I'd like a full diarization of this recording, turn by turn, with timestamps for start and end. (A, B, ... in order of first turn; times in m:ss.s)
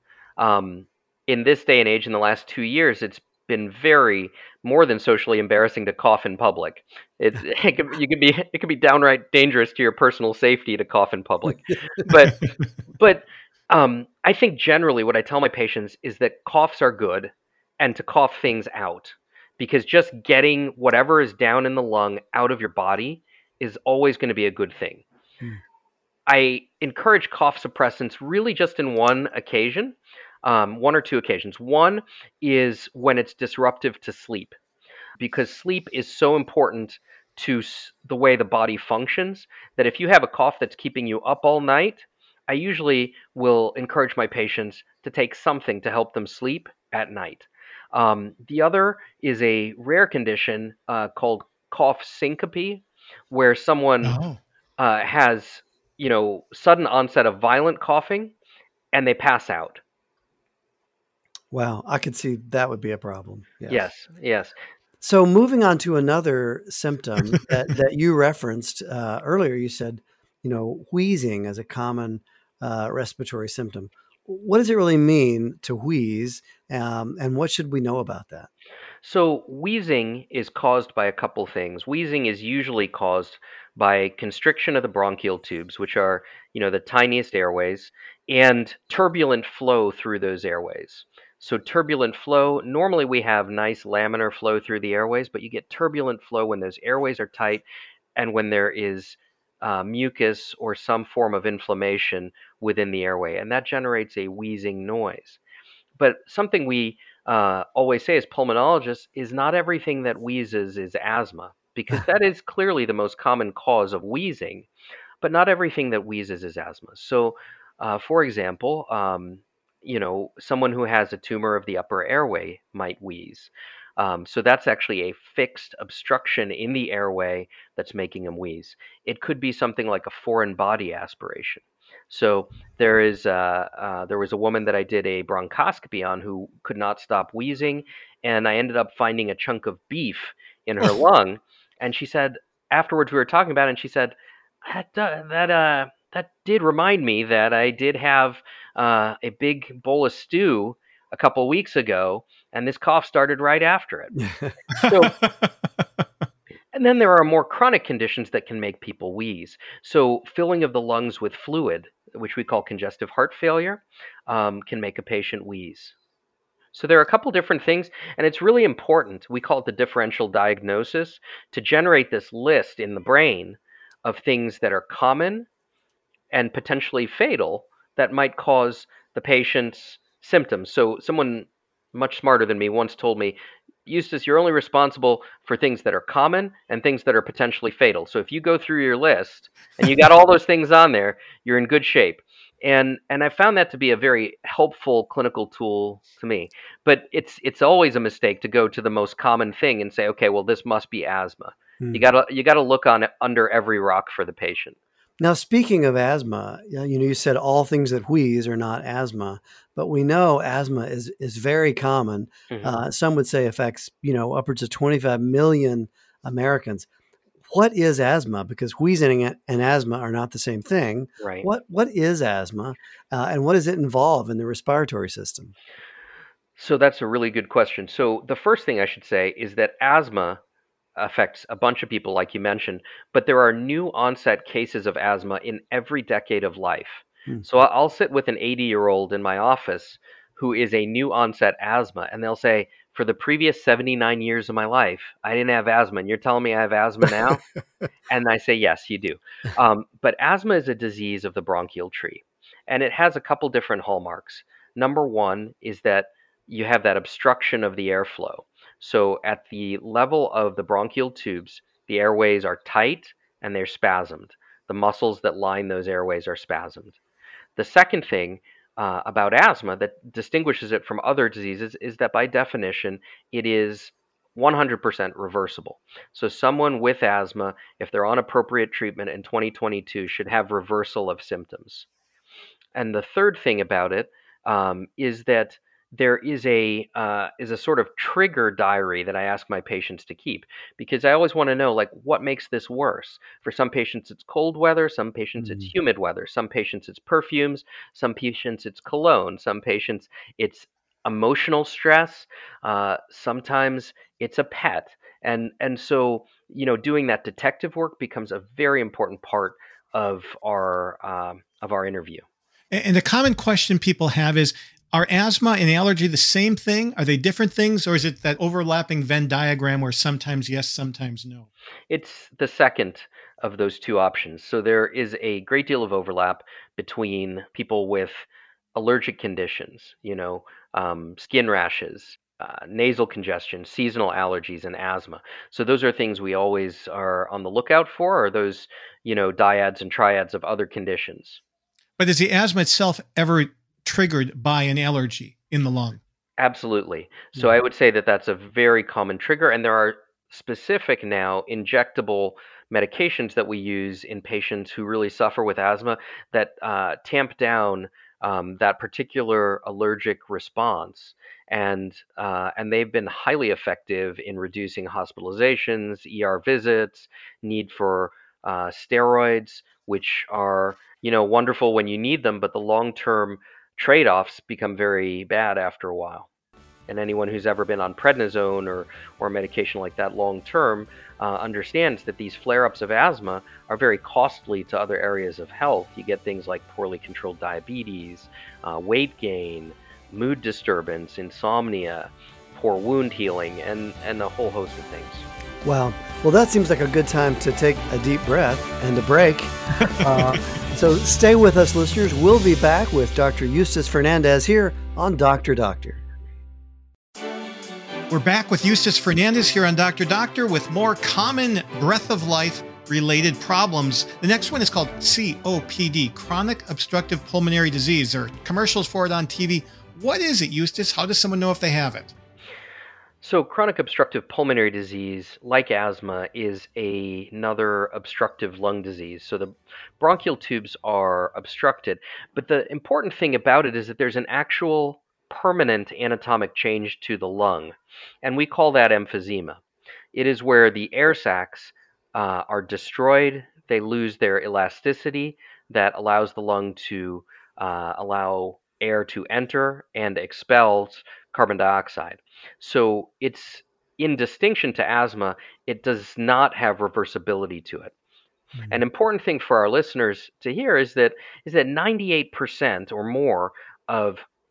0:00.4-0:25.0 A
0:26.3-0:34.6 A
0:35.2-0:54.2 A
0:54.0-0:54.4 B
0:54.8-0:58.3 A
0:58.9-0:59.8 A
1:01.5-1:03.8 C
1:03.7-1:04.5 A
1:05.0-1:18.5 C
1:19.0-1:37.6 A
1:38.2-1:45.4 A
1:46.0-1:54.7 A
1:55.2-2:34.2 A
2:34.2-2:34.5 C
2:34.8-2:35.5 B
2:34.8-2:35.2 A
2:36.7-2:45.9 A
2:46.7-2:55.5 A
2:56.3-3:24.8 A
3:25.2-3:36.9 C
3:32.5-3:32.8 A
3:37.5-3:45.5 C
3:41.2-3:41.5 A
3:46.6-3:50.4 A
3:51.0-4:07.4 A
4:08.1-4:27.0 A
4:27.6-4:41.8 A
4:42.7-5:12.2 A
4:55.4-4:55.7 C
5:12.7-5:21.5 B
5:21.9-5:41.4 A
5:42.0-5:46.0 B
5:46.4-6:16.3 A
6:16.9-6:35.2 A
6:35.6-6:46.0 C
6:39.9-6:40.4 B
6:48.1-7:02.1 B
7:03.2-7:19.6 A
7:20.1-7:37.9 A
7:38.7-7:44.2 A